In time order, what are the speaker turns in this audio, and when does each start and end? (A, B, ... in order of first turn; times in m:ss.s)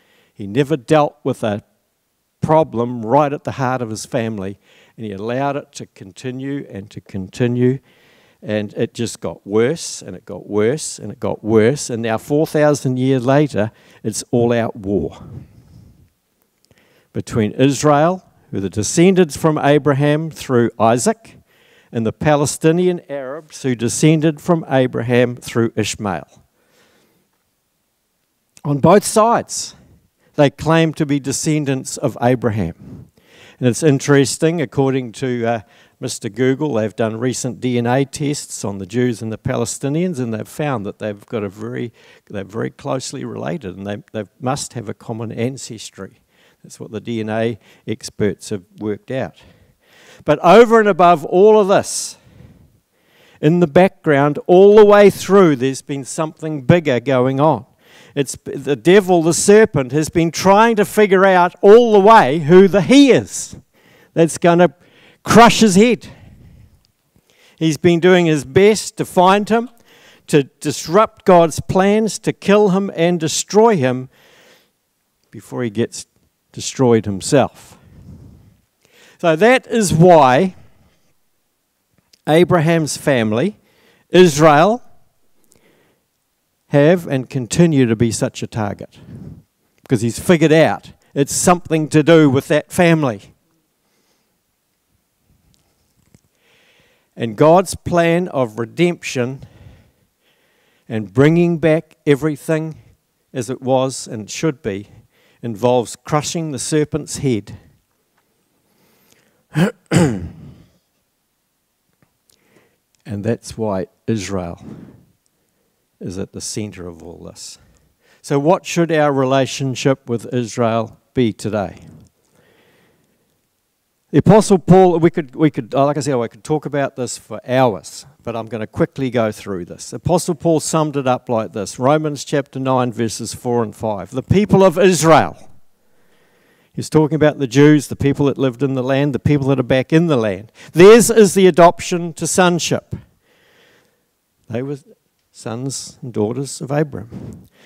0:00.4-0:01.6 A
0:02.4-0:07.8 A
0:08.4-0:15.2 A
0:17.1-0:21.4 A
0:21.9-0:26.3 A
0:28.6-0:29.7 A
0:30.4-0:33.0 A
0:33.6-0:49.4 A
0:50.2-0:52.2 A
0:53.4-1:03.6 A
1:04.1-1:06.1 A
1:07.6-1:09.7 A
1:10.3-1:14.1 A
1:15.3-1:17.8 A
1:19.2-1:20.5 A
1:22.3-1:23.6 A
1:24.1-1:24.8 A
1:26.7-1:29.0 A
1:29.8-1:33.3 A
1:37.2-1:39.4 A
1:40.9-1:42.8 A
1:43.3-1:44.9 A
1:45.4-1:47.6 A
1:49.5-1:50.3 A
1:53.0-1:54.6 A
1:56.0-1:57.6 A
1:58.2-2:01.8 A
2:04.1-2:15.4 A
2:16.7-2:23.0 A
2:24.5-2:27.4 A